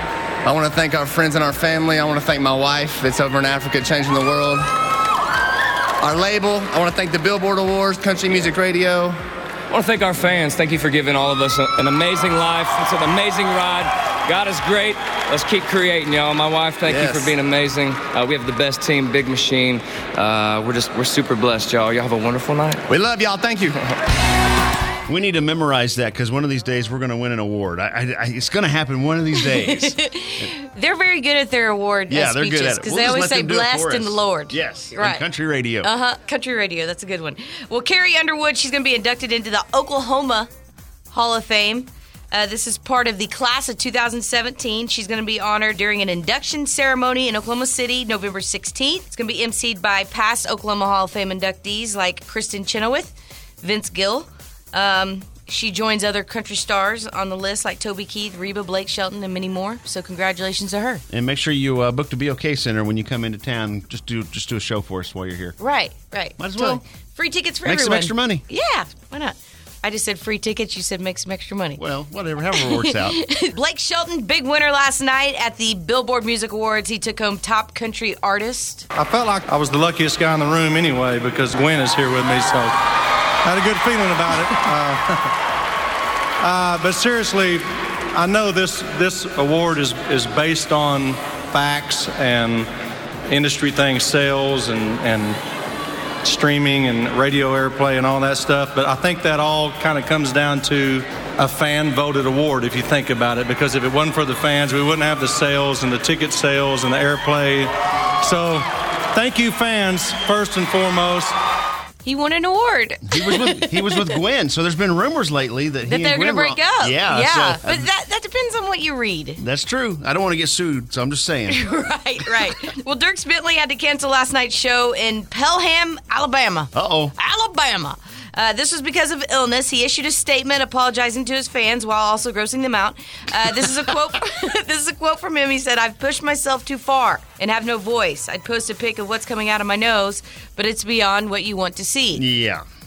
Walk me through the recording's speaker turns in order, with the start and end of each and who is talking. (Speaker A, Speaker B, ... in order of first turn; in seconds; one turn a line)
Speaker A: 0.5-4.7
Speaker A: 6.0-9.2
Speaker B: 9.7-22.8
Speaker A: 16.9-17.3
Speaker A: 22.9-23.8
Speaker C: 25.1-30.5
Speaker D: 29.4-35.2
Speaker C: 32.1-35.9
Speaker D: 35.8-40.5
Speaker D: 41.1-61.0
Speaker C: 61.1-65.6
Speaker D: 65.6-71.8
Speaker C: 66.4-66.8
Speaker C: 67.7-68.4
Speaker C: 71.8-73.2
Speaker D: 72.5-78.9
Speaker E: 79.0-82.7
Speaker E: 83.5-85.3
Speaker E: 86.4-87.6
Speaker E: 88.1-92.7
Speaker E: 93.3-95.4
Speaker E: 96.2-107.7
Speaker E: 108.2-111.3
Speaker D: 112.0-114.1
Speaker C: 113.1-117.9
Speaker D: 115.9-119.4
Speaker C: 119.4-121.6
Speaker D: 121.5-142.2
Speaker C: 126.7-127.1
Speaker C: 142.2-142.6